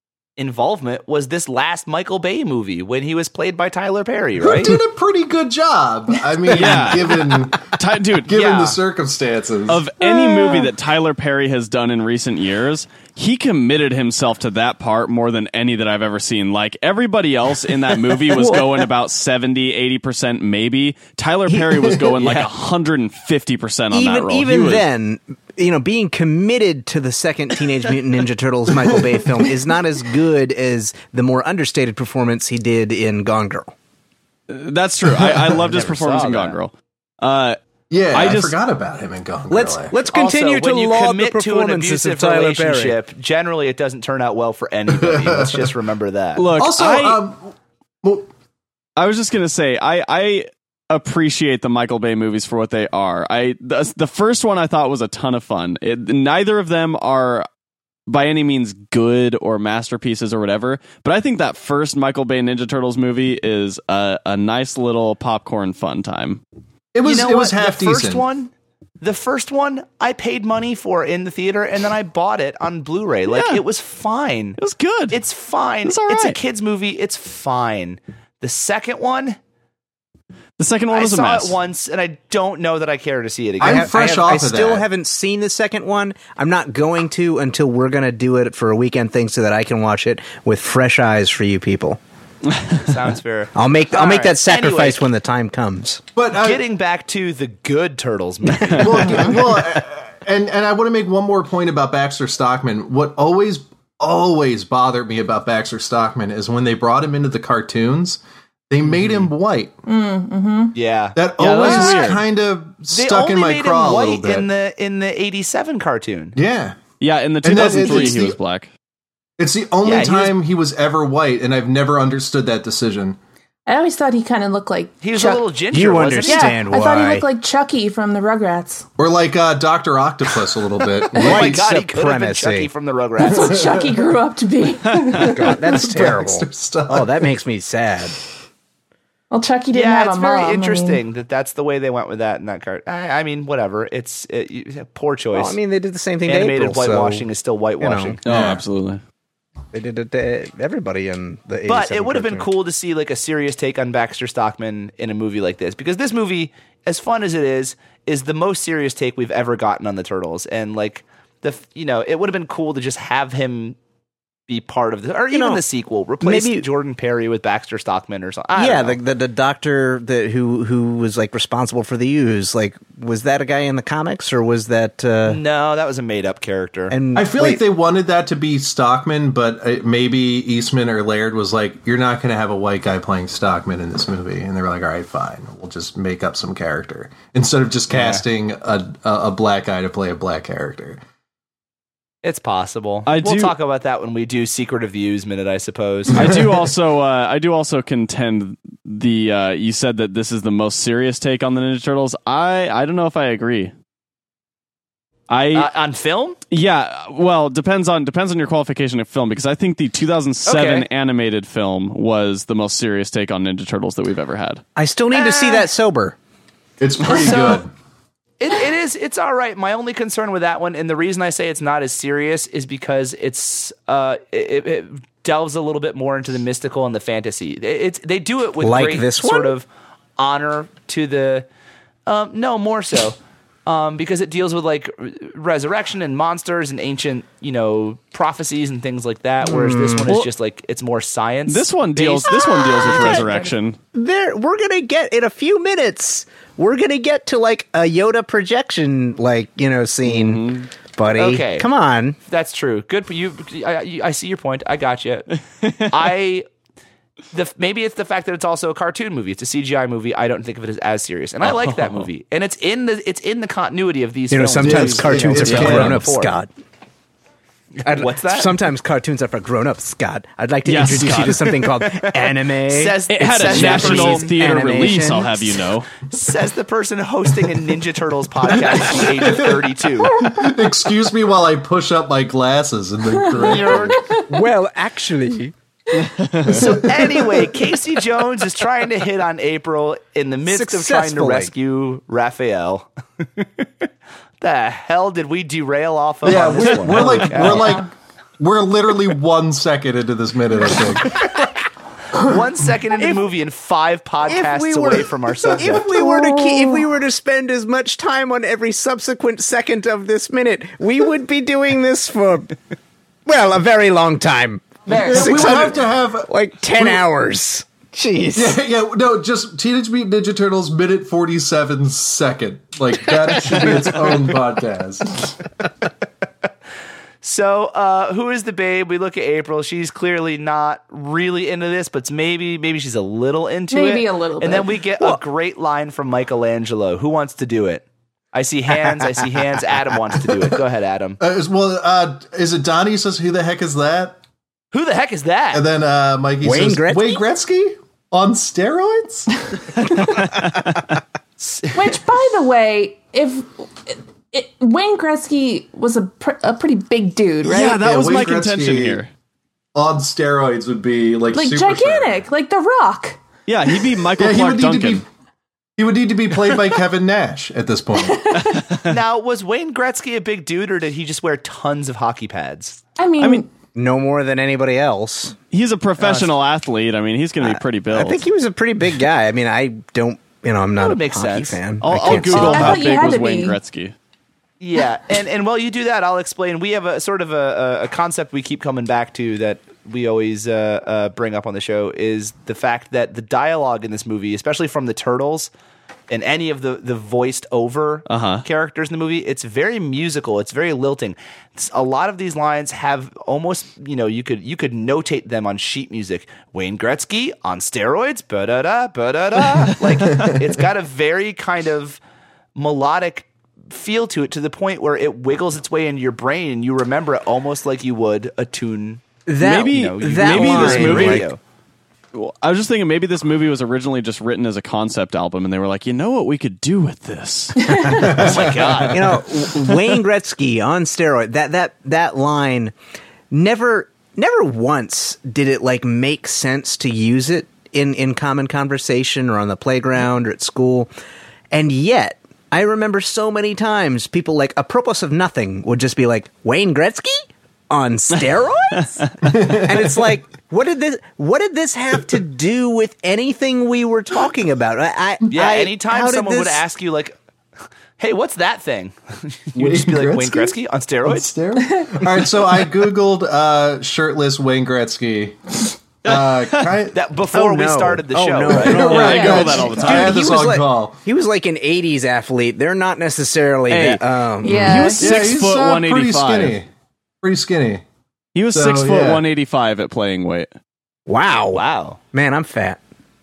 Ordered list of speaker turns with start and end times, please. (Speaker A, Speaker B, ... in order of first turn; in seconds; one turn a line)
Speaker A: 0.4-4.8
Speaker B: 4.4-9.8
Speaker C: 6.5-8.3
Speaker A: 8.3-8.8
Speaker C: 9.7-24.9
Speaker D: 10.0-10.7
Speaker E: 18.4-18.7
Speaker E: 21.5-21.9
Speaker A: 22.2-22.5
Speaker E: 23.9-33.7
Speaker C: 34.5-37.6
Speaker B: 35.1-35.5
Speaker A: 35.6-36.6
Speaker B: 37.9-40.0
Speaker C: 38.1-38.6
Speaker E: 39.5-43.0
Speaker A: 40.1-46.5
Speaker B: 44.9-45.7
Speaker C: 46.4-47.2
Speaker B: 46.5-47.5
Speaker B: 48.0-48.3
Speaker C: 49.0-57.5
Speaker C: 58.1-66.4
Speaker B: 66.9-68.2
Speaker A: 67.0-74.6
Speaker C: 73.3-73.6
Speaker C: 74.6-75.2
Speaker A: 75.1-79.4
Speaker C: 75.8-76.4
Speaker C: 80.6-81.5
Speaker A: 80.9-83.9
Speaker B: 83.6-84.8
Speaker E: 83.6-92.0
Speaker A: 92.7-95.0
Speaker E: 93.5-96.0
Speaker B: 96.1-96.6
Speaker A: 96.3-99.4
Speaker B: 98.7-109.8
Speaker A: 109.0-109.2
Speaker D: 109.9-110.7
Speaker A: 110.7-112.0
Speaker B: 111.1-114.5
Speaker C: 111.4-112.2
Speaker A: 112.9-116.3
Speaker B: 116.3-116.8
Speaker C: 117.0-118.7
Speaker B: 117.4-118.4
Speaker B: 119.4-123.2
Speaker A: 119.8-120.4
Speaker D: 123.7-125.4
Speaker A: 125.0-126.6
Speaker E: 125.7-127.3
Speaker D: 126.2-128.8
Speaker B: 129.0-131.6
Speaker E: 131.1-132.7
Speaker A: 131.1-133.6
Speaker D: 133.2-135.6
Speaker B: 133.3-134.0
Speaker E: 135.1-138.1
Speaker B: 135.4-137.3
Speaker D: 139.3-141.0
Speaker A: 139.7-145.6
Speaker E: 145.3-147.2
Speaker A: 146.2-148.2
Speaker E: 147.8-148.2
Speaker C: 148.2-149.0
Speaker B: 148.3-148.6
Speaker E: 149.7-152.5
Speaker A: 151.7-163.8
Speaker A: 164.5-169.0
Speaker E: 165.3-165.6
Speaker E: 166.2-166.7
Speaker E: 168.5-175.4
Speaker A: 175.2-177.0
Speaker E: 176.9-177.6
Speaker B: 177.1-191.0
Speaker A: 187.9-188.2
Speaker A: 192.2-196.3
Speaker C: 193.1-193.5
Speaker C: 196.1-203.7
Speaker C: 205.3-205.7
Speaker A: 205.5-206.4
Speaker C: 206.5-214.6
Speaker A: 210.4-210.8
Speaker E: 214.8-216.2
Speaker A: 215.1-215.7
Speaker B: 216.8-217.7
Speaker A: 217.0-217.6
Speaker A: 218.4-231.5
Speaker E: 228.6-229.5
Speaker A: 232.1-243.5
Speaker E: 239.4-240.1
Speaker C: 241.5-243.8
Speaker E: 242.9-243.2
Speaker E: 243.9-252.2
Speaker C: 250.0-250.7
Speaker A: 251.1-251.7
Speaker A: 252.3-256.5
Speaker C: 255.6-255.9
Speaker A: 257.3-266.3
Speaker C: 261.4-262.1
Speaker E: 264.3-266.5
Speaker B: 264.6-266.0
Speaker C: 265.5-265.9
Speaker A: 267.8-268.5
Speaker E: 267.8-275.5
Speaker C: 270.6-271.6
Speaker A: 272.7-274.3
Speaker C: 273.1-275.9
Speaker A: 276.1-280.1
Speaker B: 278.7-284.2
Speaker D: 283.4-284.2
Speaker A: 283.4-283.9
Speaker E: 283.5-285.5
Speaker C: 286.2-286.6
Speaker A: 286.4-293.6
Speaker B: 286.5-287.1
Speaker E: 290.4-291.5
Speaker A: 294.4-297.8
Speaker B: 296.2-301.4
Speaker E: 296.8-297.5
Speaker A: 302.1-305.9
Speaker E: 303.0-303.2
Speaker E: 304.2-312.6
Speaker D: 305.9-306.8
Speaker E: 313.2-318.6
Speaker D: 314.9-315.6
Speaker B: 314.9-317.0
Speaker B: 318.3-325.3
Speaker A: 327.2-341.2
Speaker D: 333.7-334.8
Speaker B: 341.2-344.2
Speaker A: 344.7-345.6
Speaker B: 345.5-349.3
Speaker E: 346.4-347.2
Speaker C: 350.3-350.8
Speaker A: 351.4-351.8
Speaker D: 351.7-357.8
Speaker C: 357.4-359.1
Speaker B: 357.6-359.0
Speaker B: 359.7-362.2
Speaker D: 361.3-363.2
Speaker C: 363.5-365.0
Speaker B: 364.2-365.1
Speaker B: 365.8-368.3
Speaker D: 368.0-368.7
Speaker C: 368.4-368.9
Speaker A: 368.8-372.8
Speaker D: 373.0-373.5
Speaker E: 373.7-375.4
Speaker C: 375.5-378.2
Speaker A: 376.0-376.3
Speaker E: 377.4-382.9
Speaker A: 380.8-381.6
Speaker C: 381.8-383.9
Speaker D: 382.1-383.6
Speaker A: 384.6-395.5
Speaker A: 396.1-412.0
Speaker C: 398.1-398.4
Speaker A: 412.5-419.0
Speaker E: 419.2-421.3
Speaker C: 419.4-421.3
Speaker A: 419.7-421.4
Speaker C: 422.1-427.9
Speaker D: 427.6-428.2
Speaker B: 427.9-429.0
Speaker A: 428.0-429.2
Speaker E: 428.9-432.7
Speaker E: 433.3-440.9
Speaker E: 441.5-456.6
Speaker B: 449.2-449.8
Speaker A: 455.3-457.1
Speaker A: 458.0-461.3
Speaker B: 459.6-460.5
Speaker B: 461.0-466.9
Speaker D: 461.7-462.0
Speaker C: 466.1-466.7
Speaker A: 466.9-469.1
Speaker E: 467.3-474.9
Speaker B: 468.4-471.0
Speaker C: 468.7-470.3
Speaker C: 473.7-476.6
Speaker D: 474.4-475.1
Speaker B: 475.0-476.7
Speaker B: 477.2-477.8
Speaker C: 478.3-480.5
Speaker B: 478.5-479.2
Speaker E: 481.1-482.8
Speaker A: 481.5-482.0